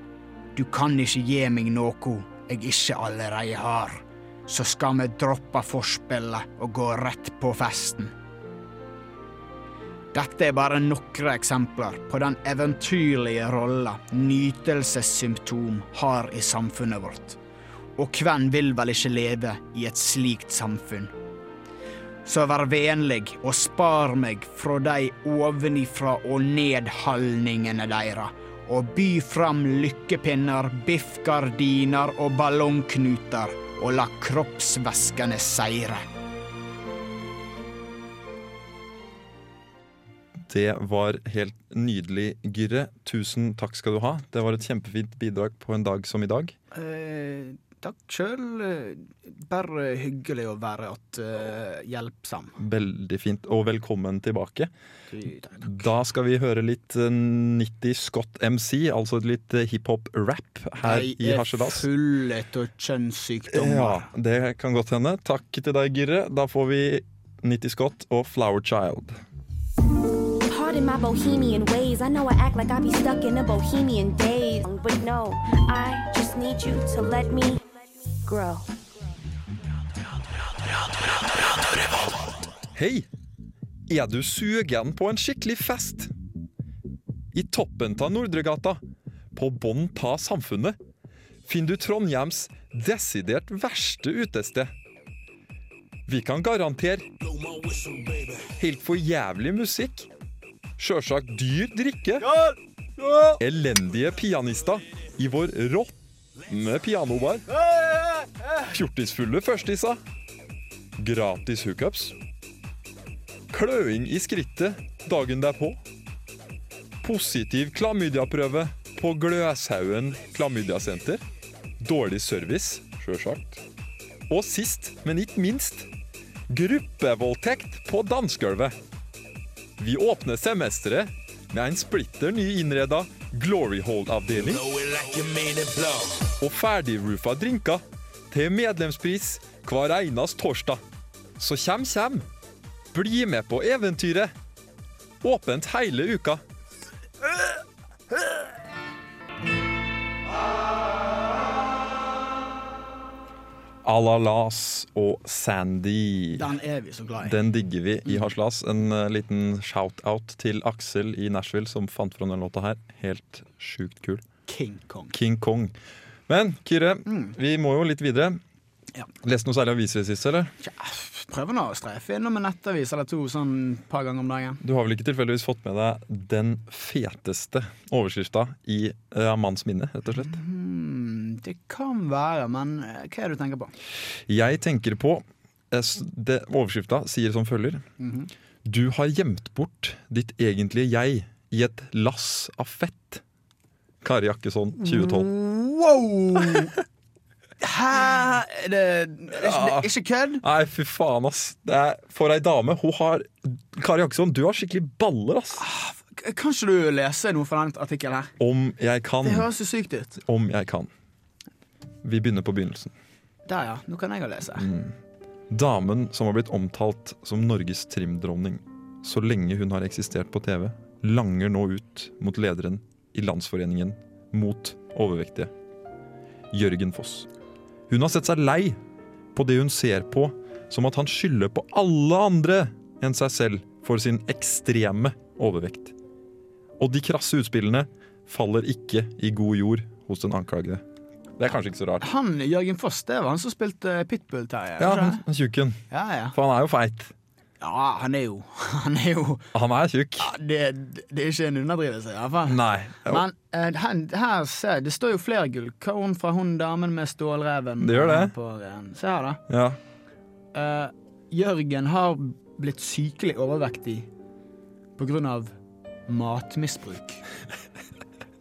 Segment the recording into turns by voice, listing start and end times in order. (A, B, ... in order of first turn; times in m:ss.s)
0:00.5-0:08.1 A
0:10.1-0:17.4 A
0:18.0-0:21.1 A
0:22.2-0:36.0 A
0:40.4-0:46.5 B
0:46.7-0:52.6 A
0:52.6-0:54.7 B
0:55.1-0:55.8 A
0:55.6-1:01.8 B
1:00.8-1:04.1 A
1:03.5-1:09.2 B
1:10.5-1:17.6 C
1:18.2-1:18.8 C
1:22.7-1:23.1 B
1:23.9-1:26.1 B
1:27.3-1:28.8 B
1:29.3-1:30.8 B
1:31.4-1:34.7 B
1:36.1-1:37.1 B
1:38.3-1:40.1 B
1:40.8-1:42.3 B
1:43.4-1:47.5 B
1:48.7-1:50.0 B
1:51.0-1:52.2 B
1:53.5-1:55.8 B
1:57.0-2:01.2 B
2:01.8-2:03.6 B
2:04.3-2:05.9 B
2:06.5-2:08.8 B
2:09.8-2:20.8 B
2:21.4-2:22.2 B
2:22.9-2:24.3 B
2:25.2-2:26.4 B
2:33.8-2:36.5 B
2:36.4-2:37.4 A
2:37.2-2:44.2 B
2:44.5-2:45.1 A
2:45.1-2:45.7 B
2:46.3-2:48.4 B
2:47.1-2:47.3 A
2:49.2-2:50.5 B
2:50.6-2:54.6 A
2:54.6-3:00.4 B
3:00.1-3:03.7 A
3:04.3-3:07.8 B
3:08.0-3:08.3 A
3:08.6-3:13.2 B
3:14.0-3:15.3 B
3:14.8-3:16.8 A
3:17.6-3:20.4 A
3:19.4-3:19.9 B
3:20.4-3:25.6 B
3:25.5-3:28.3 A
3:28.4-3:29.5 B
3:29.2-3:30.2 A
3:30.2-3:30.9 B
3:32.0-3:32.9 B
3:33.4-3:34.7 A
3:34.6-3:35.0 B
3:35.5-3:45.5 B
3:46.5-3:47.3 B
3:47.9-3:48.8 B
3:49.3-3:55.9 B
3:56.8-4:00.8 B
4:01.4-4:02.0 B
4:02.0-4:05.2 A
4:04.8-4:05.8 B
4:05.9-4:06.4 A
4:06.3-4:07.1 B
4:07.6-4:09.5 A
4:09.5-4:10.3 B
4:10.2-4:19.4 A
4:12.5-4:13.2 B
4:17.8-4:18.3 B
4:19.5-4:19.8 B
4:20.5-4:24.1 A
4:25.0-4:25.5 A
4:26.1-4:27.2 A